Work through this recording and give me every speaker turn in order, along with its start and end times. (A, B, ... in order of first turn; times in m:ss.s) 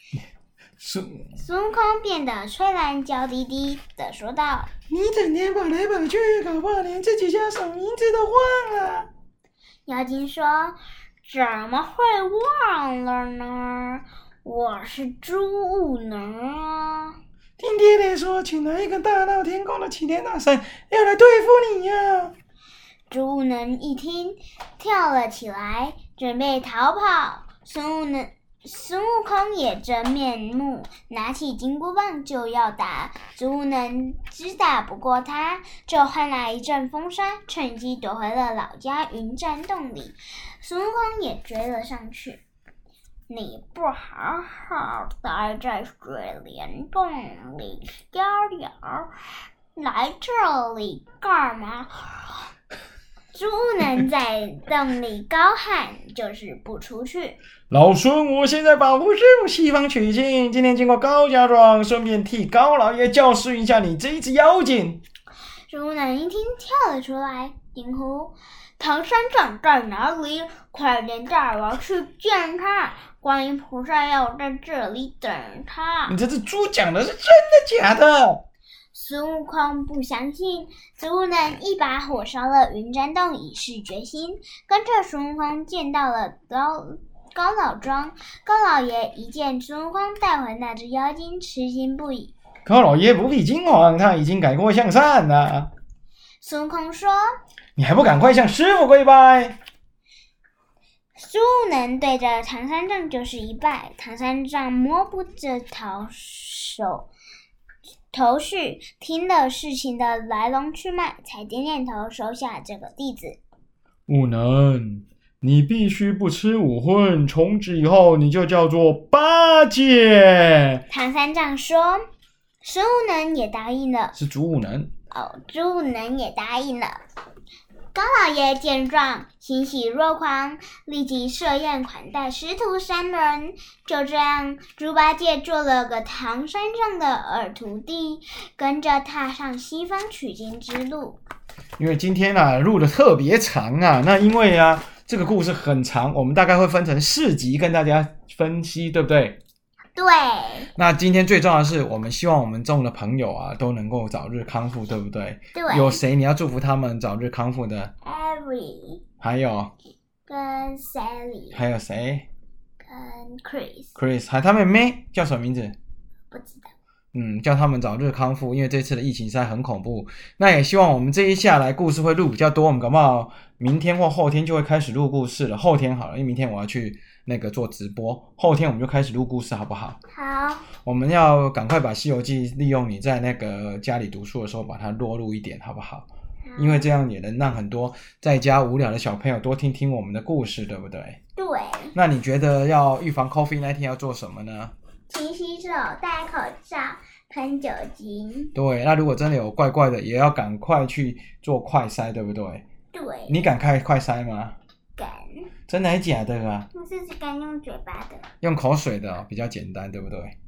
0:00.8-0:01.3 A
0:01.4-0:04.7 B
0:04.9-0:09.1 A
0:09.8-0:17.2 B
0:17.6-0:22.3 A
0:23.1-0:42.4 B
0:43.3-0:49.1 B
0:49.8-0:52.4 B
0:53.3-0:57.4 B
0:57.7-1:05.0 A
1:05.7-1:16.2 B
1:16.1-1:18.4 A
1:18.9-1:32.3 B
1:32.6-1:35.7 A
1:36.4-1:37.2 B
1:37.8-1:39.6 A
1:41.2-1:47.1 B
1:48.1-1:53.4 B
1:54.1-2:00.8 A
2:00.9-2:02.0 B
2:02.6-2:04.1 B
2:04.1-2:04.9 A
2:05.1-2:07.0 B
2:07.9-2:21.2 B
2:21.8-2:29.4 A
2:30.0-2:30.7 B
2:30.8-2:37.9 A
2:35.5-2:36.0 B
2:38.0-2:39.0 B
2:39.2-2:39.7 A
2:40.2-2:41.6 B
2:41.5-2:42.3 A
2:42.8-2:44.0 B
2:44.0-2:45.8 A
2:46.3-2:46.7 B
2:47.1-3:00.0 A
3:00.1-3:00.7 B
3:00.8-3:11.2 A
3:06.4-3:06.9 B
3:11.4-3:11.9 B
3:11.9-3:14.7 A
3:15.1-3:18.5 B
3:18.5-3:22.6 A
3:22.9-3:23.4 B
3:23.3-3:24.6 A
3:25.0-3:25.5 B
3:25.7-3:26.7 A
3:26.7-3:28.2 B
3:28.4-3:30.3 A